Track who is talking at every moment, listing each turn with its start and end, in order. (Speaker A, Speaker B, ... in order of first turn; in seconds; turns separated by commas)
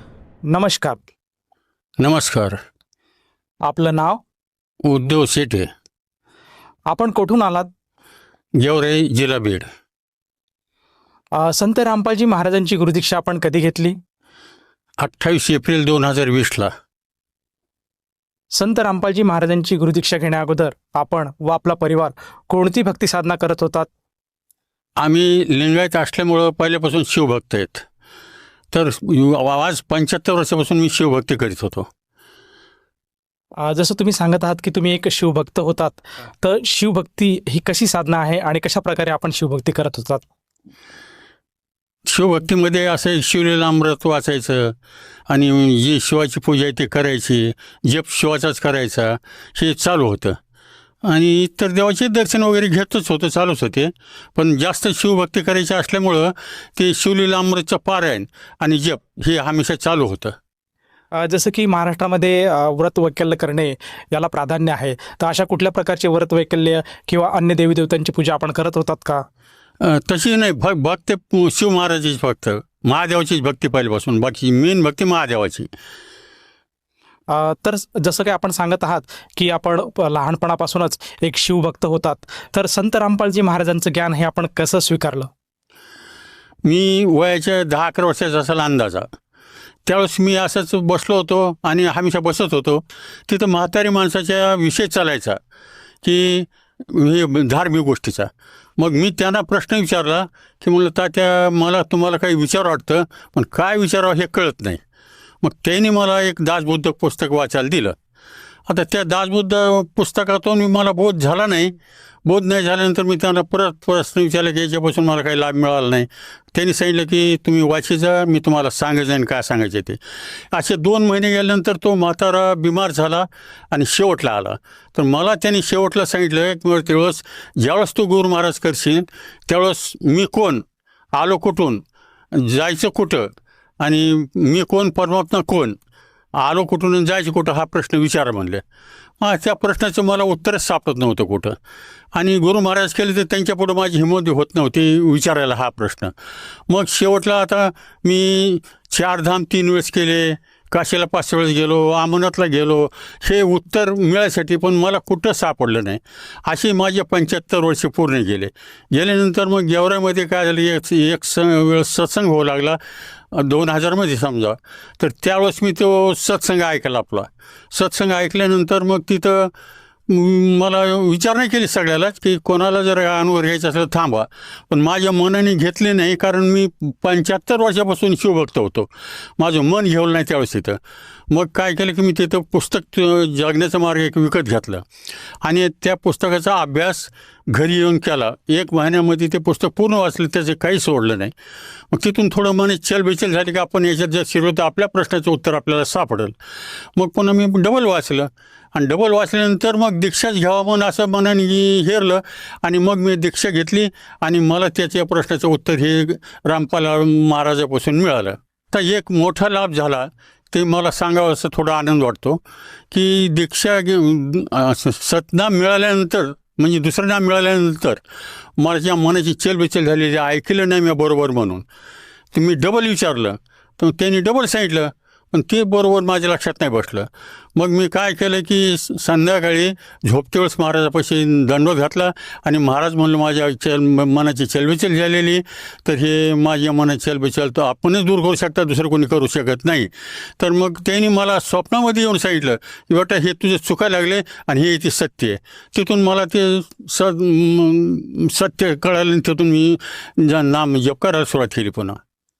Speaker A: 0.5-1.0, Speaker B: 2.0-2.6, Speaker A: 3.6-4.2, Speaker B: 4.8-5.7, Speaker A: 6.9-7.7, Speaker B: 8.6-9.7, Speaker A: 11.3-14.0, Speaker B: 15.0-16.7, Speaker A: 18.5-23.9, Speaker B: 25.0-27.8, Speaker B: 28.7-31.9, Speaker A: 33.6-40.2, Speaker B: 42.1-44.7, Speaker B: 45.3-50.4, Speaker B: 51.0-60.3, Speaker A: 61.1-69.2, Speaker B: 69.8-75.7, Speaker A: 77.3-85.3, Speaker B: 86.7-89.1, Speaker B: 89.8-95.4, Speaker B: 96.0-104.8, Speaker B: 105.4-108.0, Speaker B: 108.7-111.7, Speaker B: 112.2-120.0, Speaker B: 120.5-130.6, Speaker B: 131.2-131.8, Speaker B: 132.3-133.3, Speaker B: 133.8-135.8, Speaker B: 136.4-138.6, Speaker B: 139.2-141.6, Speaker B: 142.2-146.1, Speaker B: 146.7-162.8, Speaker B: 163.3-169.5, Speaker B: 170.1-180.8, Speaker B: 181.3-184.8, Speaker B: 185.4-191.3, Speaker B: 191.9-196.3, Speaker B: 197.0-218.0, Speaker B: 218.6-221.6, Speaker B: 222.3-252.0